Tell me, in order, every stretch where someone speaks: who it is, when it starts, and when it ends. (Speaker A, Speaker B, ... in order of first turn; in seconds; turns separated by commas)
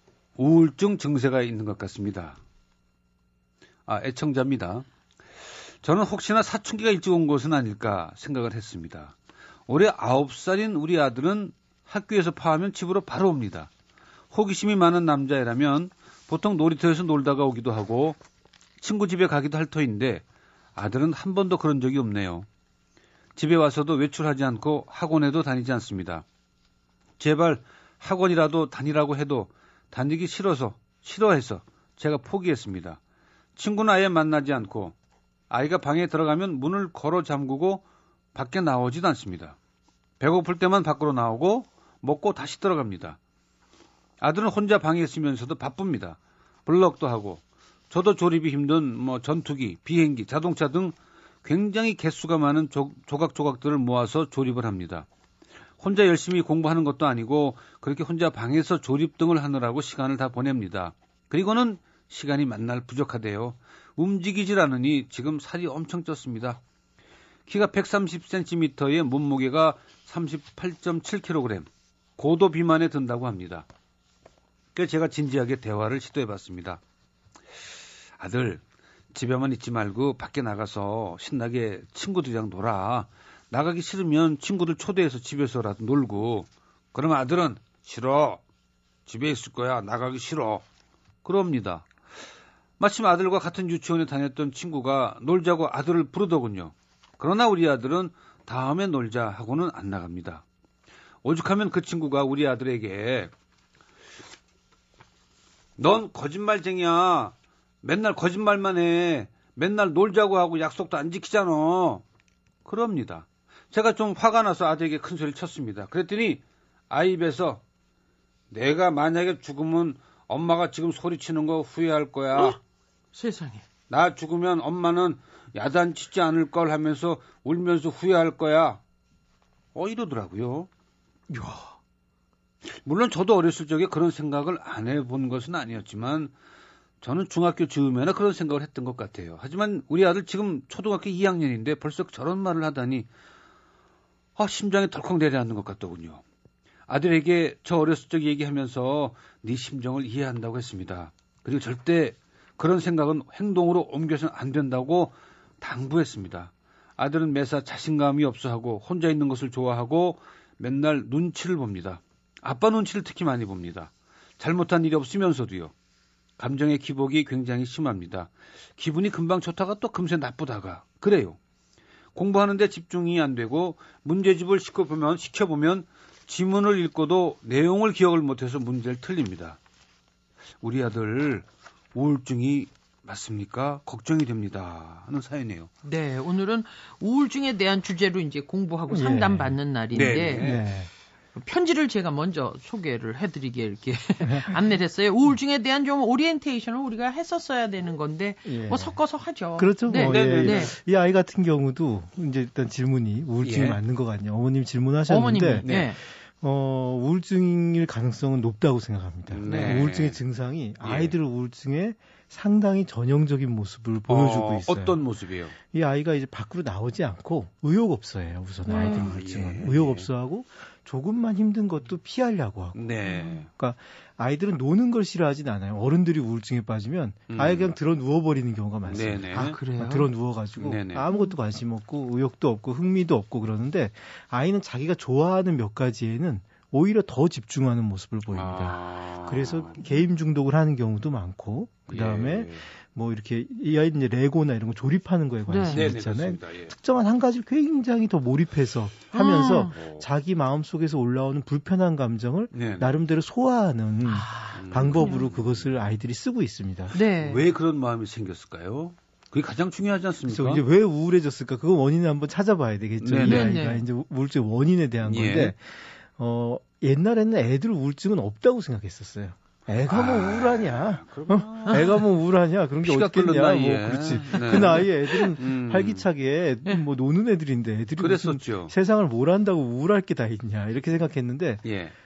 Speaker A: 0.4-2.4, Speaker A: 3.9-4.9, Speaker A: 5.8-9.2, Speaker A: 9.7-13.7, Speaker A: 14.3-18.2, Speaker A: 18.8-20.2, Speaker A: 20.8-22.5, Speaker A: 23.4-26.2, Speaker A: 27.2-33.0, Speaker A: 33.6-34.9, Speaker A: 35.5-37.8, Speaker A: 38.4-39.6, Speaker A: 40.2-43.2, Speaker A: 44.2-55.1, Speaker A: 55.8-66.6, Speaker A: 67.5-73.7, Speaker A: 74.8-76.8, Speaker A: 78.2-78.6, Speaker A: 79.1-88.4, Speaker A: 89.1-90.6, Speaker A: 91.2-91.9, Speaker A: 92.8-100.5, Speaker A: 101.2-103.3, Speaker A: 105.8-112.0, Speaker A: 112.7-117.6, Speaker A: 118.5-122.6, Speaker B: 123.1-123.6, Speaker A: 123.9-128.8, Speaker A: 129.8-130.7, Speaker C: 131.3-131.7, Speaker A: 132.7-136.3, Speaker A: 137.0-143.1, Speaker A: 144.4-146.2, Speaker A: 146.9-165.7, Speaker A: 166.4-171.4, Speaker A: 172.2-179.6, Speaker A: 180.6-185.7, Speaker B: 185.8-190.6, Speaker C: 188.9-190.9, Speaker A: 189.9-190.6, Speaker B: 191.3-200.7, Speaker C: 194.2-194.6, Speaker C: 198.4-199.0, Speaker C: 199.6-215.0, Speaker A: 199.9-200.7, Speaker A: 203.4-203.8, Speaker B: 205.1-206.0, Speaker A: 205.6-205.9, Speaker A: 209.3-210.2, Speaker B: 209.5-209.8, Speaker A: 210.8-211.2, Speaker A: 214.1-215.6, Speaker C: 215.7-223.0, Speaker B: 218.6-219.1, Speaker A: 218.8-220.1, Speaker A: 222.8-223.5, Speaker B: 223.1-223.4, Speaker C: 223.5-256.9, Speaker A: 227.3-227.7, Speaker A: 228.9-229.6, Speaker B: 229.3-230.1, Speaker A: 230.6-231.1, Speaker B: 231.1-231.4, Speaker A: 238.3-239.8, Speaker A: 241.9-242.7, Speaker B: 245.5-245.9, Speaker A: 245.7-246.7, Speaker B: 249.1-249.7, Speaker A: 249.7-250.1, Speaker A: 252.5-253.0, Speaker B: 254.1-255.3, Speaker A: 254.5-255.9, Speaker B: 256.9-257.4, Speaker A: 257.1-260.6, Speaker C: 260.3-281.6, Speaker A: 263.0-263.5, Speaker B: 263.2-263.9, Speaker A: 265.0-265.6, Speaker A: 269.9-272.1, Speaker B: 271.7-272.0, Speaker A: 272.8-276.1, Speaker A: 278.0-278.7, Speaker A: 281.6-281.9